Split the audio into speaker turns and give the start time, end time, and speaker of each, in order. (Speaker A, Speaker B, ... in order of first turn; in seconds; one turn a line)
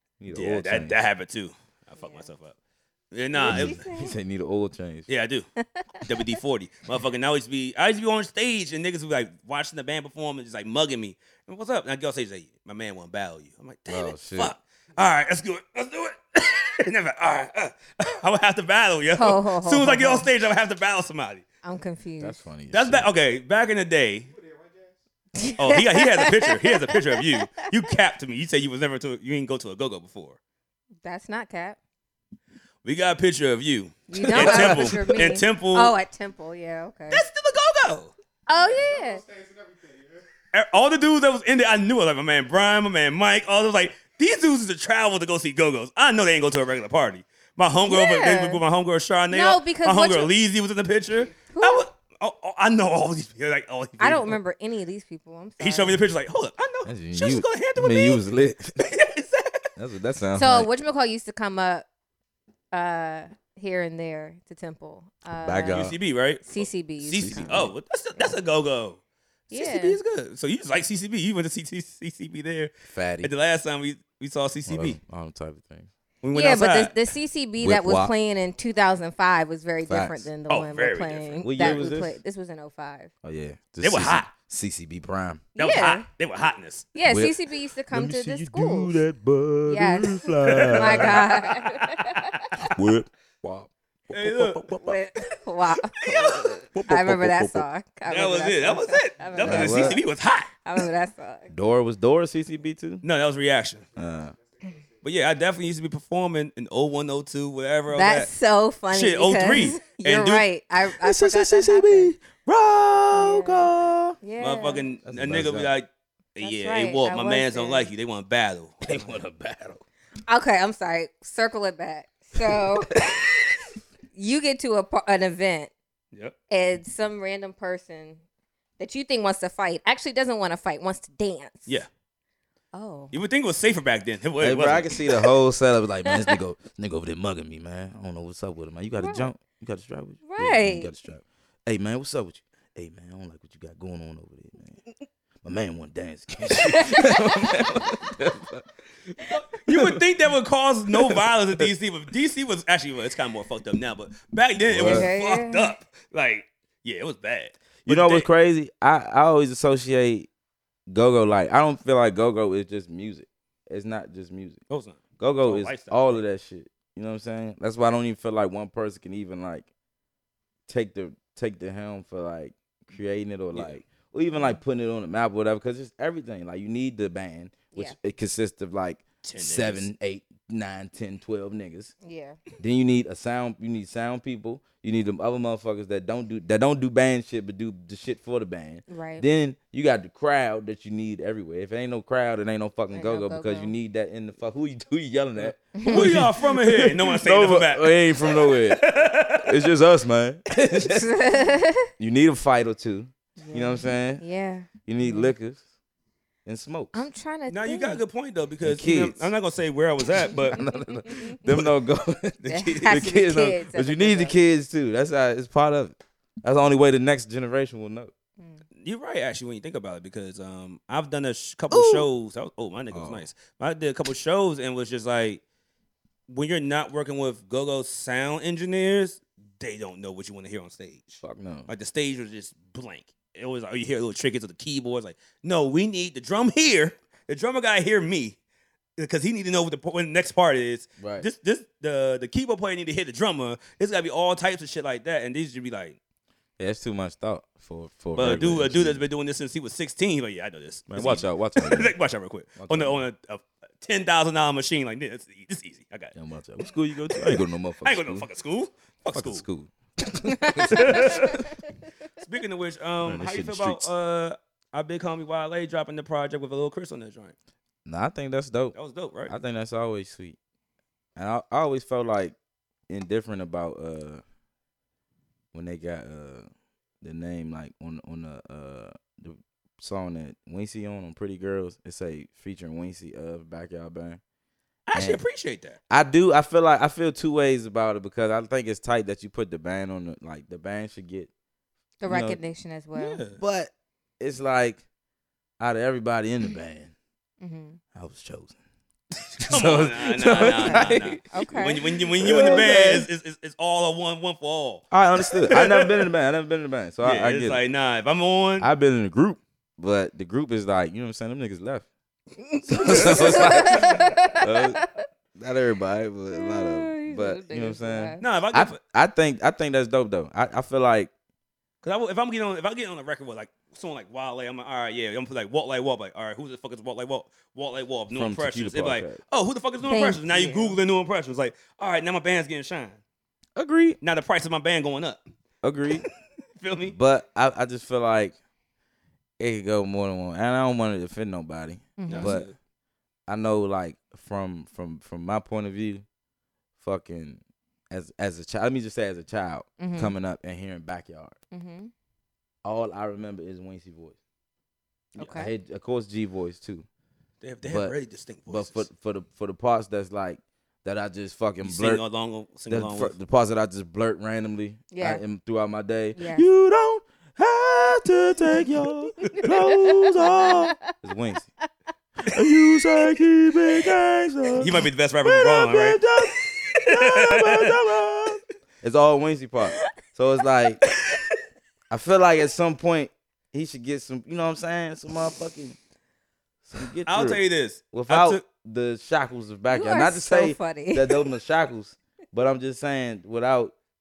Speaker A: 0.2-0.9
Speaker B: 0.3-2.5
Speaker C: 2.0-2.3
Speaker B: 3.1-3.8
Speaker C: 3.3-4.1
Speaker A: 3.4-5.1
Speaker B: 5.1-5.5
Speaker C: 5.6-6.3
Speaker B: 6.0-21.4
Speaker A: 13.9-14.5
Speaker C: 19.1-20.3
Speaker C: 21.6-22.4
Speaker A: 22.2-23.1
Speaker B: 22.7-24.3
Speaker C: 25.4-27.6
Speaker B: 25.6-30.4
Speaker C: 31.0-31.8
Speaker B: 32.8-35.9
Speaker C: 34.1-37.2
Speaker A: 34.2-35.0
Speaker B: 37.1-38.1
Speaker C: 38.5-39.2
Speaker B: 40.5-54.4
Speaker C: 47.9-48.6
Speaker C: 49.3-50.3
Speaker C: 51.5-51.9
Speaker C: 54.0-56.0
Speaker B: 55.6-58.2
Speaker A: 56.8-58.8
Speaker B: 58.8-59.7
Speaker A: 59.8-60.7
Speaker C: 60.4-61.9
Speaker C: 62.7-65.9
Speaker A: 65.4-66.0
Speaker B: 65.7-75.0
Speaker C: 66.4-68.3
Speaker A: 67.2-67.7
Speaker C: 69.5-70.0
Speaker A: 72.9-73.3
Speaker A: 74.7-75.9
Speaker B: 76.2-77.0
Speaker C: 76.3-83.1
Speaker A: 77.6-78.1
Speaker A: 79.8-80.3
Speaker B: 80.5-81.8
Speaker A: 81.4-82.2
Speaker A: 83.2-85.4
Speaker B: 83.8-84.3
Speaker C: 85.5-86.1
Speaker B: 85.6-86.9
Speaker C: 86.9-89.0
Speaker A: 87.0-87.3
Speaker A: 87.9-91.2
Speaker C: 89.7-92.7
Speaker B: 90.5-91.3
Speaker A: 92.7-95.0
Speaker B: 94.1-94.7
Speaker C: 94.8-100.0
Speaker B: 96.0-96.6
Speaker A: 96.7-97.7
Speaker B: 98.1-100.5
Speaker A: 99.4-100.0
Speaker C: 100.6-101.5
Speaker A: 101.5-103.0
Speaker B: 103.0-103.8
Speaker A: 104.0-104.3
Speaker B: 105.0-108.3
Speaker C: 107.9-112.1
Speaker B: 108.9-110.5
Speaker A: 110.9-114.2
Speaker C: 113.1-114.8
Speaker B: 114.4-119.1
Speaker A: 115.0-115.7
Speaker C: 116.4-117.9
Speaker A: 118.8-119.8
Speaker C: 120.3-122.9
Speaker A: 122.9-123.6
Speaker C: 124.1-125.7
Speaker C: 126.5-128.2
Speaker C: 128.8-131.8
Speaker C: 132.7-133.2
Speaker B: 133.1-135.0
Speaker A: 134.4-144.8
Speaker C: 139.0-139.3
Speaker C: 140.2-140.9
Speaker A: 145.4-148.6
Speaker C: 146.5-148.1
Speaker B: 149.2-158.3
Speaker A: 149.7-150.0
Speaker A: 150.9-151.7
Speaker A: 154.7-155.1
Speaker C: 154.8-155.7
Speaker A: 157.8-160.3
Speaker A: 160.9-164.6
Speaker B: 164.7-166.2
Speaker A: 165.2-169.7
Speaker A: 170.7-181.9
Speaker B: 173.5-173.8
Speaker B: 179.2-179.9
Speaker C: 182.0-182.4
Speaker A: 182.6-201.2
Speaker C: 188.9-189.2
Speaker C: 192.9-193.7
Speaker B: 195.4-199.6
Speaker C: 195.7-196.2
Speaker C: 200.8-201.9
Speaker A: 202.0-204.2
Speaker C: 203.4-205.3
Speaker A: 204.8-205.6
Speaker A: 206.4-207.1
Speaker C: 206.9-208.0
Speaker B: 207.5-210.6
Speaker A: 208.6-209.3
Speaker A: 210.2-218.1
Speaker C: 210.7-211.4
Speaker B: 211.4-211.7
Speaker B: 212.4-213.1
Speaker C: 212.5-214.3
Speaker C: 218.4-218.6
Speaker B: 218.8-225.4
Speaker A: 221.7-222.1
Speaker A: 222.9-223.3
Speaker B: 226.3-238.4
Speaker A: 231.2-231.7
Speaker B: 239.0-246.0
Speaker A: 241.0-241.3
Speaker A: 246.6-249.0
Speaker B: 248.1-256.1
Speaker A: 250.9-251.9
Speaker A: 252.6-253.0
Speaker A: 256.1-258.3
Speaker B: 257.1-259.4
Speaker A: 259.1-261.3
Speaker C: 260.3-261.4
Speaker B: 260.7-261.5
Speaker B: 262.2-267.4
Speaker A: 263.0-263.9
Speaker A: 267.9-268.7
Speaker B: 268.7-269.3
Speaker A: 269.3-270.4
Speaker A: 271.1-272.3
Speaker A: 272.9-274.2
Speaker A: 275.5-276.5
Speaker A: 277.0-284.2
Speaker B: 284.9-285.8
Speaker A: 284.9-285.2
Speaker A: 285.9-291.3
Speaker C: 292.0-293.2
Speaker A: 292.1-292.4
Speaker B: 292.9-293.4
Speaker A: 293.4-294.8
Speaker A: 295.6-296.9
Speaker C: 297.4-297.8
Speaker A: 297.9-298.6
Speaker A: 299.4-301.2
Speaker B: 299.4-306.1
Speaker C: 300.3-302.8
Speaker A: 302.1-303.1
Speaker A: 304.9-307.6
Speaker B: 307.0-308.7
Speaker A: 308.6-311.9
Speaker A: 312.7-314.8
Speaker B: 312.7-314.1
Speaker C: 312.8-314.9
Speaker A: 315.4-321.1
Speaker C: 316.3-318.2
Speaker B: 318.2-318.8
Speaker B: 321.8-333.0
Speaker A: 328.1-329.2
Speaker C: 329.8-330.8
Speaker A: 333.6-334.0
Speaker B: 334.0-335.2
Speaker A: 335.6-336.0
Speaker B: 335.9-336.9
Speaker A: 336.9-338.4
Speaker A: 339.4-342.5
Speaker C: 342.0-342.4
Speaker B: 342.1-342.5
Speaker A: 343.3-346.0
Speaker A: 346.8-351.4
Speaker C: 349.8-350.1
Speaker C: 351.5-351.9
Speaker A: 352.6-354.2
Speaker C: 355.2-355.5
Speaker A: 355.2-356.9
Speaker B: 357.4-358.9
Speaker A: 357.6-357.9
Speaker A: 358.5-362.0
Speaker B: 361.6-363.1
Speaker A: 362.7-371.5
Speaker C: 364.9-365.2
Speaker C: 366.1-366.4
Speaker B: 369.2-369.5
Speaker C: 369.3-370.8
Speaker A: 372.2-380.8
Speaker B: 374.6-377.8
Speaker A: 381.9-385.8
Speaker A: 386.6-393.7
Speaker B: 387.0-388.4
Speaker C: 389.7-391.3